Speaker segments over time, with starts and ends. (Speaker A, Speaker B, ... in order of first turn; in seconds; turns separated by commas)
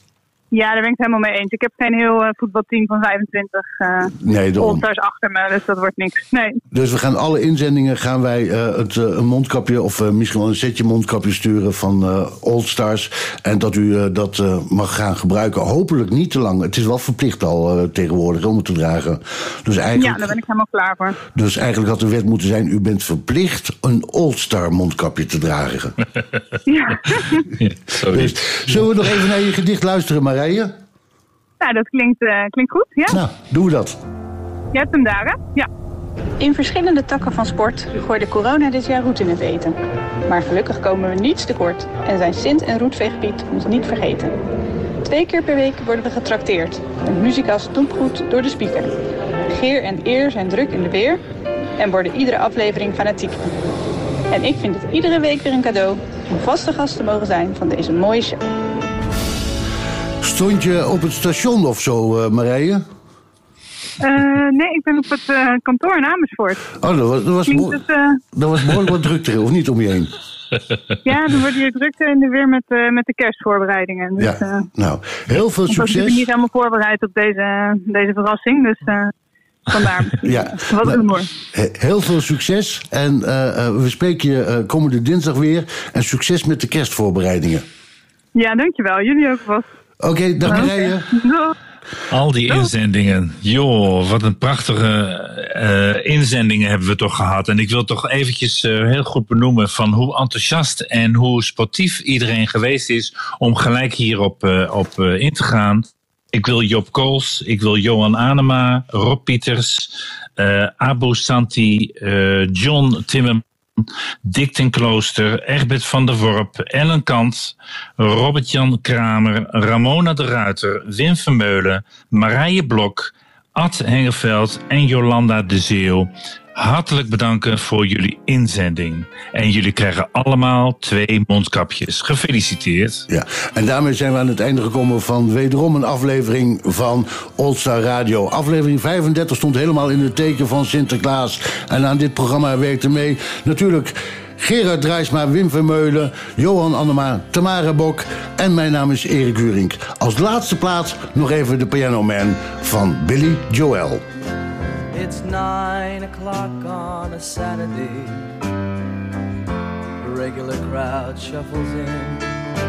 Speaker A: 0.5-4.1, Speaker B: 4.1-4.9, Speaker A: 4.6-6.6, Speaker B: 6.7-20.4, Speaker A: 20.0-21.1, Speaker B: 21.3-25.9, Speaker A: 26.7-27.2, Speaker C: 27.6-28.9, Speaker B: 28.1-30.7, Speaker A: 31.6-33.1, Speaker B: 33.1-34.0, Speaker A: 34.7-35.7, Speaker D: 36.4-39.7, Speaker D: 40.3-44.3, Speaker D: 45.0-49.0, Speaker D: 49.5-51.2, Speaker D: 51.8-53.4, Speaker D: 54.3-58.4, Speaker B: 60.2-62.8, Speaker A: 64.0-66.6, Speaker B: 66.8-67.8, Speaker A: 67.5-68.2, Speaker B: 68.3-70.1, Speaker A: 71.0-74.5, Speaker B: 74.2-76.3, Speaker A: 75.7-79.1, Speaker A: 79.7-80.2, Speaker B: 80.2-87.6, Speaker A: 80.7-81.2, Speaker A: 88.3-89.6, Speaker B: 90.0-91.1, Speaker A: 90.5-91.5, Speaker C: 92.1-113.4, Speaker C: 114.2-133.1, Speaker B: 133.1-154.0, Speaker E: 154.9-158.4, Speaker E: 160.0-162.4